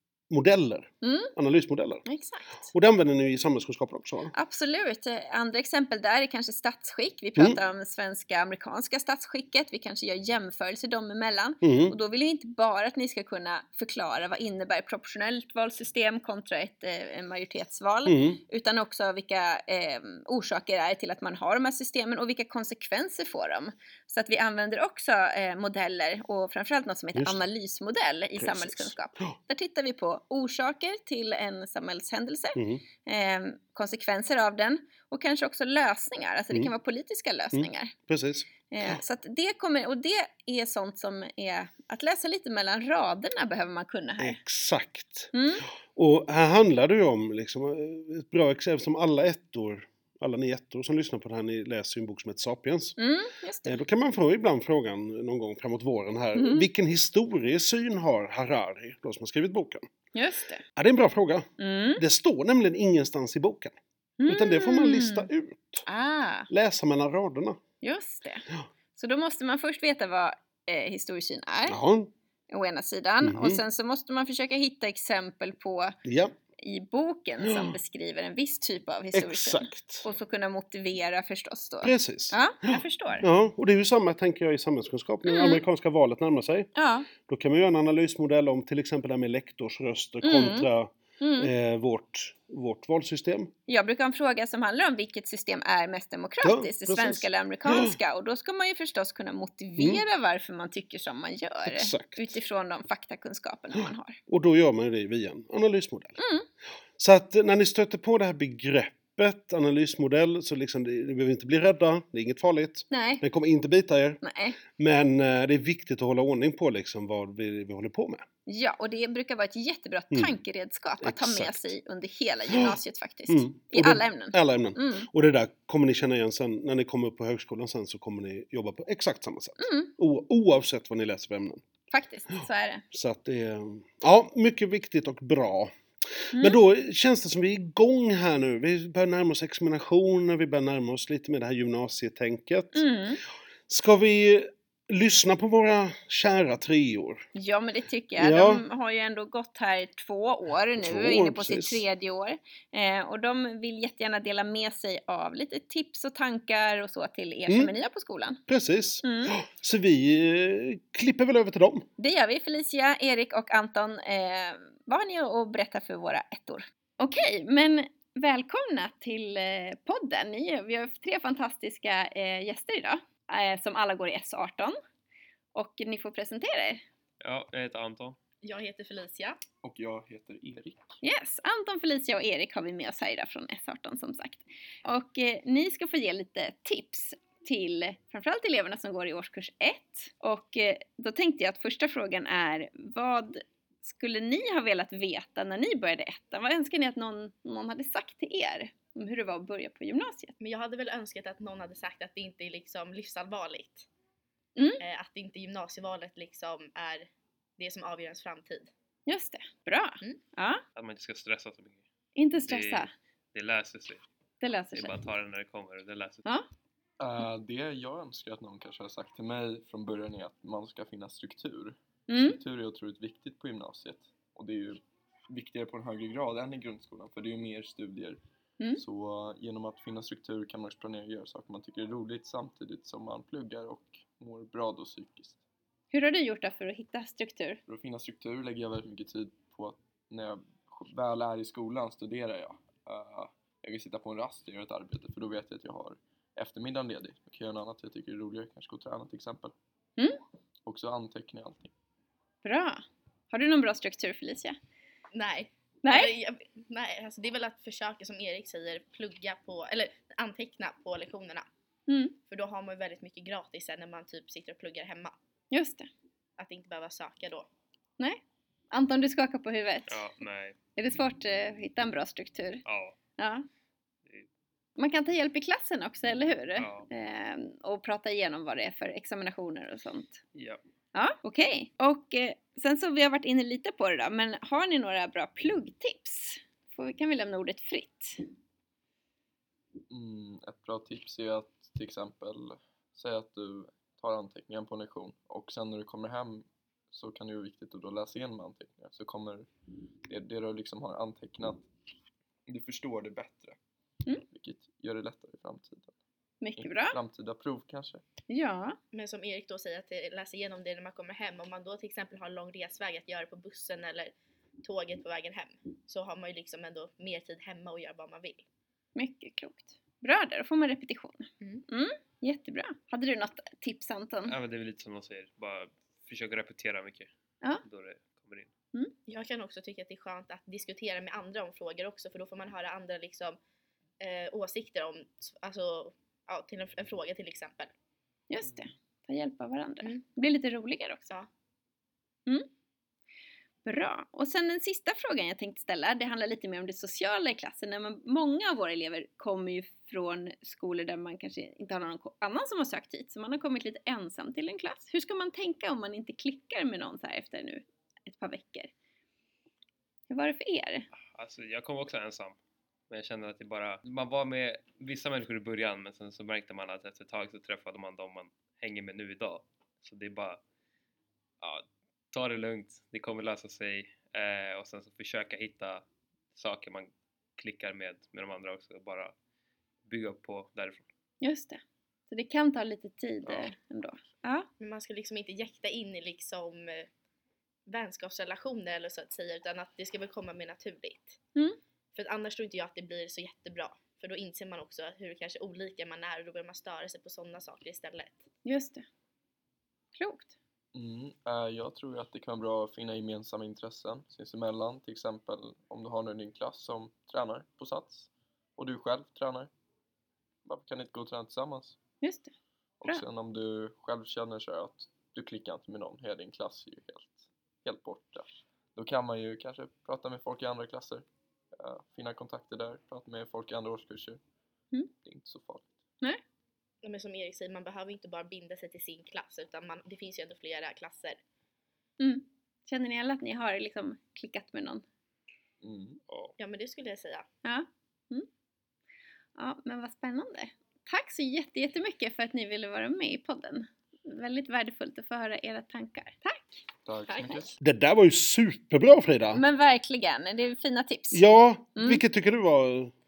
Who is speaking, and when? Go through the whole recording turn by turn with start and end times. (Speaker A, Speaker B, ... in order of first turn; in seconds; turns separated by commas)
Speaker A: 0.3-2.0, Speaker B: 1.0-1.3, Speaker B: 2.1-2.7, Speaker A: 2.7-4.3, Speaker B: 4.3-37.9, Speaker A: 11.6-11.9, Speaker A: 18.1-18.4, Speaker A: 27.1-27.4, Speaker A: 28.4-29.4, Speaker A: 32.5-32.8, Speaker A: 37.5-39.0, Speaker B: 38.7-44.4, Speaker A: 44.2-45.3, Speaker B: 45.3-45.7, Speaker A: 45.9-53.0, Speaker B: 53.0-53.8, Speaker A: 53.6-59.9, Speaker B: 56.4-56.7, Speaker B: 60.1-60.6, Speaker A: 60.8-63.8, Speaker B: 61.6-62.0, Speaker B: 64.2-65.3, Speaker A: 64.3-65.9, Speaker B: 65.9-66.5, Speaker A: 66.5-67.6, Speaker B: 67.8-71.8, Speaker A: 71.7-72.1, Speaker B: 72.5-75.9, Speaker A: 73.2-73.6, Speaker A: 76.0-76.3, Speaker B: 76.6-83.3, Speaker A: 77.5-77.7, Speaker A: 79.1-80.1, Speaker A: 81.8-86.7, Speaker B: 85.2-85.6, Speaker B: 86.8-87.1, Speaker A: 87.2-93.5, Speaker B: 90.2-91.5, Speaker B: 93.7-104.2, Speaker A: 96.4-98.0, Speaker A: 101.7-102.4, Speaker A: 104.3-106.2, Speaker B: 106.2-106.5, Speaker A: 107.0-114.2, Speaker B: 112.9-113.2, Speaker B: 114.2-114.6, Speaker A: 114.8-118.2, Speaker B: 118.5-125.1, Speaker A: 121.0-121.7, Speaker A: 123.3-131.6, Speaker B: 129.6-129.9, Speaker B: 131.9-132.8, Speaker A: 132.9-135.7, Speaker A: 136.3-142.8, Speaker B: 142.7-143.2, Speaker A: 143.7-147.2, Speaker B: 147.3-158.4, Speaker A: 148.2-148.7, Speaker A: 150.8-151.8, Speaker A: 158.5-161.8, Speaker B: 159.0-159.3, Speaker B: 162.0-174.8, Speaker B: 175.5-176.8, Speaker C: 177.2-178.2, Speaker D: 178.4-179.4, Speaker E: 179.6-180.9, Speaker B: 181.0-200.4, Speaker D: 200.4-203.9, Speaker B: 204.6-204.8, Speaker D: 204.8-208.7, Speaker B: 209.1-210.6, Speaker C: 210.8-211.8, Speaker B: 212.2-212.9, Speaker C: 212.4-214.0, Speaker B: 214.4-215.0, Speaker C: 214.7-216.2, Speaker E: 217.0-228.2, Speaker B: 222.1-222.4, Speaker E: 228.8-235.4, Speaker B: 235.9-237.6, Speaker E: 237.7-249.5, Speaker E: 250.7-251.7, Speaker B: 252.4-254.6, Speaker D: 255.1-261.5, Speaker B: 255.8-256.1, Speaker B: 261.9-262.1, Speaker D: 262.3-265.1, Speaker B: 265.5-265.9, Speaker D: 266.4-267.5, Speaker B: 268.0-270.0, Speaker C: 269.9-270.6, Speaker B: 270.8-272.6, Speaker C: 272.7-273.0, Speaker B: 273.2-273.5, Speaker B: 274.8-280.2, Speaker C: 276.6-276.9, Speaker C: 280.4-280.6, Speaker B: 280.9-288.2, Speaker E: 289.9-299.5, Speaker E: 300.1-301.6, Speaker E: 302.5-303.6, Speaker E: 304.3-305.9, Speaker B: 306.4-307.0, Speaker E: 306.6-308.0, Speaker B: 308.3-308.8, Speaker D: 308.9-318.4, Speaker B: 319.0-324.4, Speaker C: 324.3-327.1, Speaker C: 327.6-328.5, Speaker D: 329.1-333.4, Speaker D: 334.0-337.7, Speaker B: 338.3-341.1, Speaker B: 343.6-358.7, Speaker B: 360.1-360.9, Speaker C: 361.1-362.4, Speaker C: 362.9-370.4, Speaker C: 371.4-379.1, Speaker C: 379.9-380.9, Speaker B: 381.2-384.5, Speaker C: 383.3-383.5, Speaker D: 384.6-386.9, Speaker D: 387.7-391.2, Speaker D: 391.9-398.2, Speaker B: 398.4-398.9, Speaker B: 400.0-400.3, Speaker E: 400.7-409.5, Speaker E: 410.4-411.8, Speaker B: 412.0-412.3, Speaker E: 412.8-421.1, Speaker E: 421.6-424.2, Speaker E: 425.0-425.7, Speaker D: 426.8-431.2, Speaker B: 432.0-434.8, Speaker E: 435.6-436.0, Speaker C: 436.1-436.4, Speaker D: 436.4-437.2, Speaker B: 437.4-438.3, Speaker B: 439.4-446.6, Speaker E: 446.9-447.5, Speaker A: 447.6-449.4, Speaker B: 449.3-451.2, Speaker A: 451.1-452.9, Speaker B: 451.8-452.0